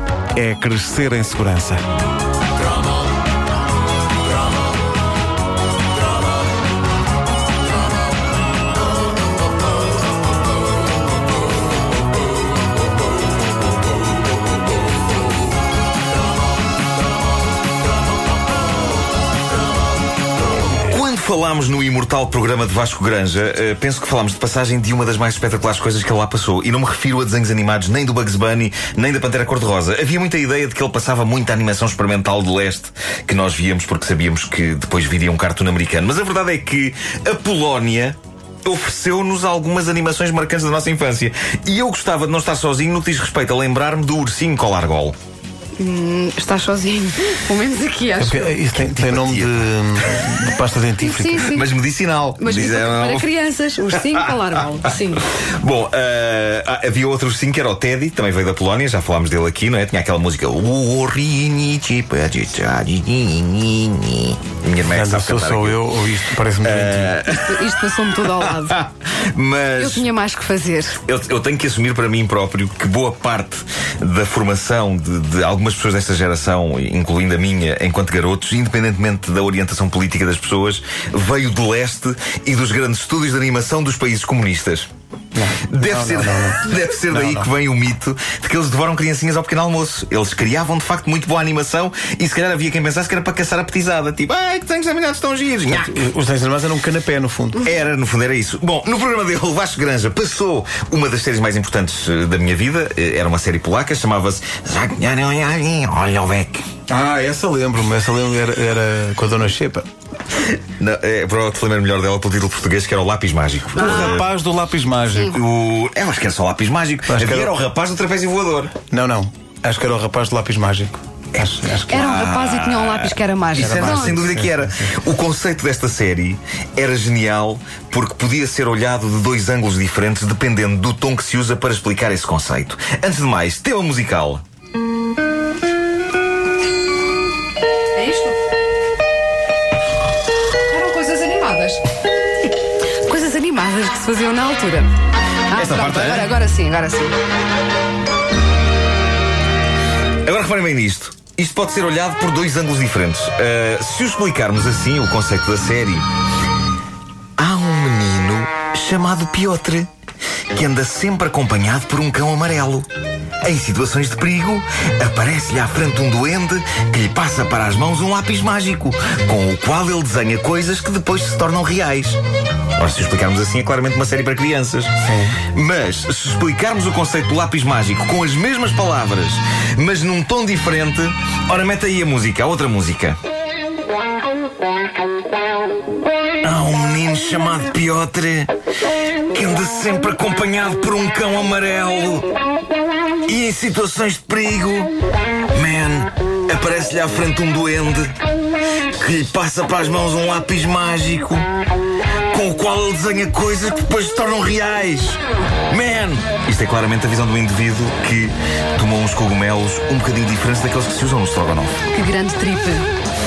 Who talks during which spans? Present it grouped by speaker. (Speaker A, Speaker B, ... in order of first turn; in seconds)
Speaker A: 0.3-1.8, 48.2-51.5, 64.9-67.2, 85.3-87.5, 95.7-97.7, 106.9-109.8, 113.7-115.4, 117.1-117.5, 118.9-122.2, 123.6-124.9, 175.0-175.4
Speaker B: 20.8-45.1, 48.7-50.4, 51.4-53.3, 53.8-65.9, 66.6-70.1, 71.0-84.9, 85.7-96.0, 97.6-106.6, 110.4-114.2, 115.2-118.7, 121.3-134.4, 145.5-146.3, 150.2-156.1, 157.4-159.9, 160.5-162.9, 163.4-172.2, 172.8-174.9, 175.5-183.2, 186.4-188.5, 189.3-192.3, 193.2-194.9, 195.5-198.1, 198.9-201.4, 202.3-211.8
Speaker C: 45.8-48.5, 51.0-51.7, 52.4-55.2, 67.2-68.8, 69.8-71.0, 113.8-114.2, 121.9-124.2, 137.9-138.4, 140.7-141.8, 143.1-144.9, 145.5-147.2, 211.9-212.9